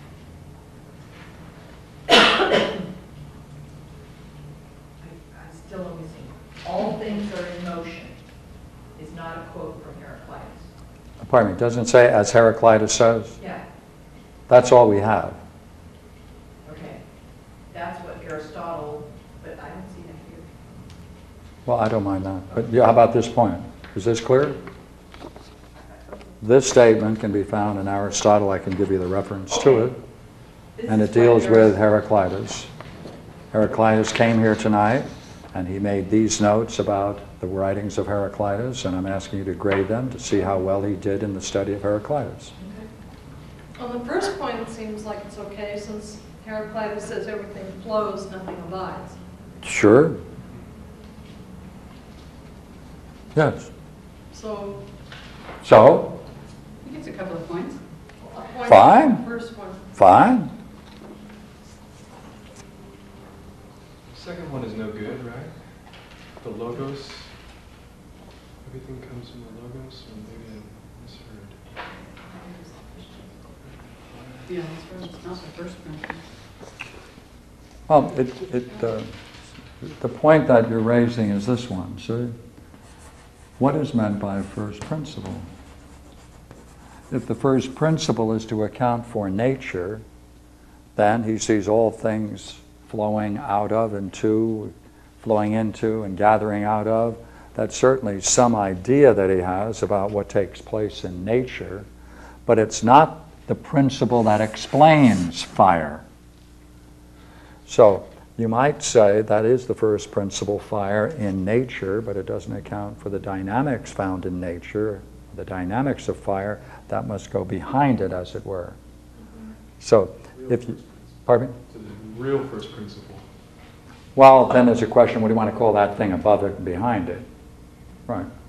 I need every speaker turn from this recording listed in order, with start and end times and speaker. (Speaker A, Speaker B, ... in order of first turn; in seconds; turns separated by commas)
Speaker A: 5.0-8.1, Speaker A: 8.9-10.7, Speaker B: 11.2-13.4, Speaker A: 13.4-13.6, Speaker B: 14.5-15.4, Speaker A: 16.6-17.0, Speaker A: 17.7-20.5, Speaker B: 21.6-24.6, Speaker A: 25.9-26.1, Speaker B: 26.4-30.0, Speaker A: 30.8-31.7, Speaker B: 30.9-32.7, Speaker B: 33.5-42.5, Speaker A: 42.6-42.8, Speaker C: 43.8-49.1, Speaker B: 49.6-50.2, Speaker B: 53.3-53.7, Speaker C: 54.3-54.8, Speaker B: 55.6-56.2, Speaker D: 56.8-57.8, Speaker C: 58.3-59.8, Speaker B: 58.6-59.2, Speaker B: 60.0-60.5, Speaker E: 64.1-65.5, Speaker E: 66.4-67.3, Speaker E: 68.6-71.6, Speaker A: 72.0-73.3, Speaker E: 74.1-74.5, Speaker D: 74.5-76.2, Speaker B: 77.9-79.1, Speaker B: 80.0-82.3, Speaker B: 83.6-85.5, Speaker B: 87.1-90.0, Speaker B: 91.0-101.9, Speaker B: 102.5-106.0, Speaker B: 107.7-118.8, Speaker B: 119.8-121.5, Speaker E: 120.4-121.0, Speaker E: 121.7-123.2, Speaker B: 124.2-127.3